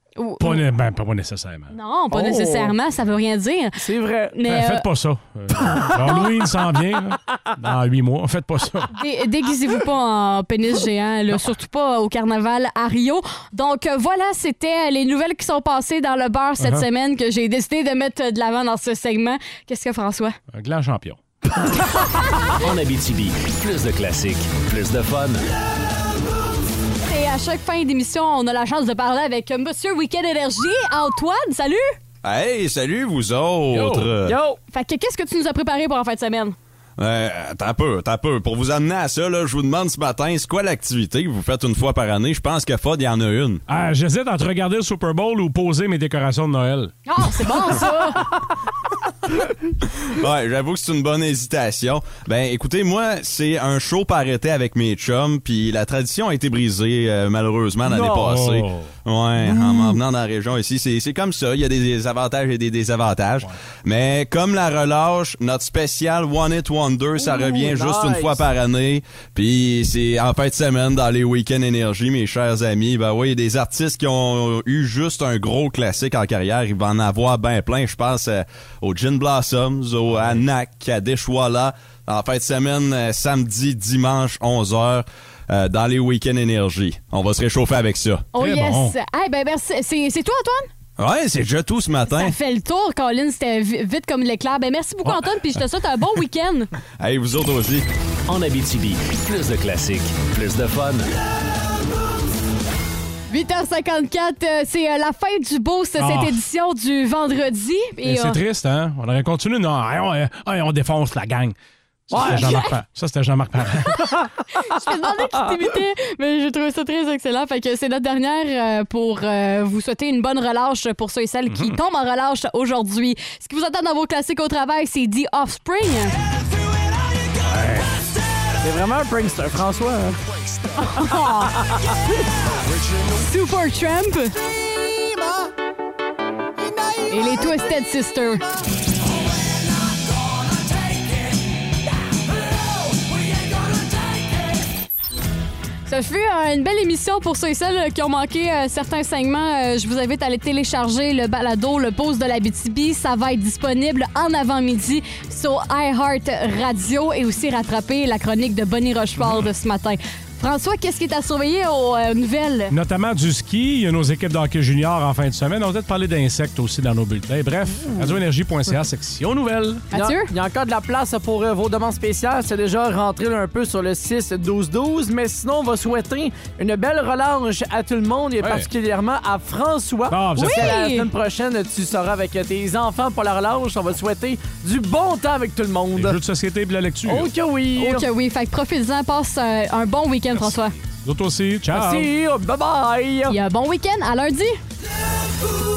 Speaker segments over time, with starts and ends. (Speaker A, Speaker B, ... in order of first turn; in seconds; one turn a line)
Speaker A: 0.2-0.6
Speaker B: 0.4-1.7
Speaker A: 1.7-3.8
Speaker C: 2.1-2.7
Speaker C: 3.8-4.4
Speaker A: 4.3-4.8
Speaker B: 4.5-8.9
Speaker C: 5.6-6.2
Speaker A: 9.0-20.4
Speaker B: 16.6-16.9
Speaker B: 20.5-21.2
Speaker D: 22.6-25.4
Speaker A: 27.1-31.9
Speaker E: 32.2-34.3
Speaker B: 33.7-34.1
Speaker C: 34.2-34.6
Speaker A: 34.7-36.5
Speaker E: 37.0-43.6
Speaker B: 43.7-46.9
Speaker A: 47.1-48.4
Speaker E: 50.1-88.3
Speaker C: 57.9-58.1
Speaker B: 57.9-58.9
Speaker B: 59.4-59.9
Speaker C: 67.2-68.4
Speaker B: 80.1-80.4
Speaker A: 88.3-90.7
Speaker B: 88.3-88.9
Speaker E: 91.0-92.3
Speaker A: 92.1-96.7
Speaker E: 97.0-97.8
Speaker D: 98.3-101.0
Speaker A: 103.3-108.4
Speaker B: 106.0-106.4
Speaker B: 108.0-111.5
Speaker B: 112.1-114.1
Speaker C: 112.1-112.6
Speaker A: 112.2-112.7
Speaker A: 114.5-126.2
Speaker B: 121.5-121.8
Speaker B: 127.5-127.9
Speaker C: 128.6-130.2
Speaker A: 130.8-131.6
Speaker C: 130.9-132.0
Speaker A: 133.2-134.3
Speaker A: 137.1-138.4
Speaker A: 145.9-162.7
Speaker B: 159.2-159.5
Speaker B: 162.7-169.9
Speaker A: 169.9-170.3
Speaker C: 169.9-186.2
Speaker B: 178.4-178.7
Speaker B: 180.1-180.8
Speaker A: 180.3-181.1
Speaker B: 185.9-187.3
Speaker C: 187.1-188.0
Speaker A: 187.8-190.7
Speaker B: 190.3-192.1
Speaker C: 191.7-193.3
Speaker A: 193.3-194.6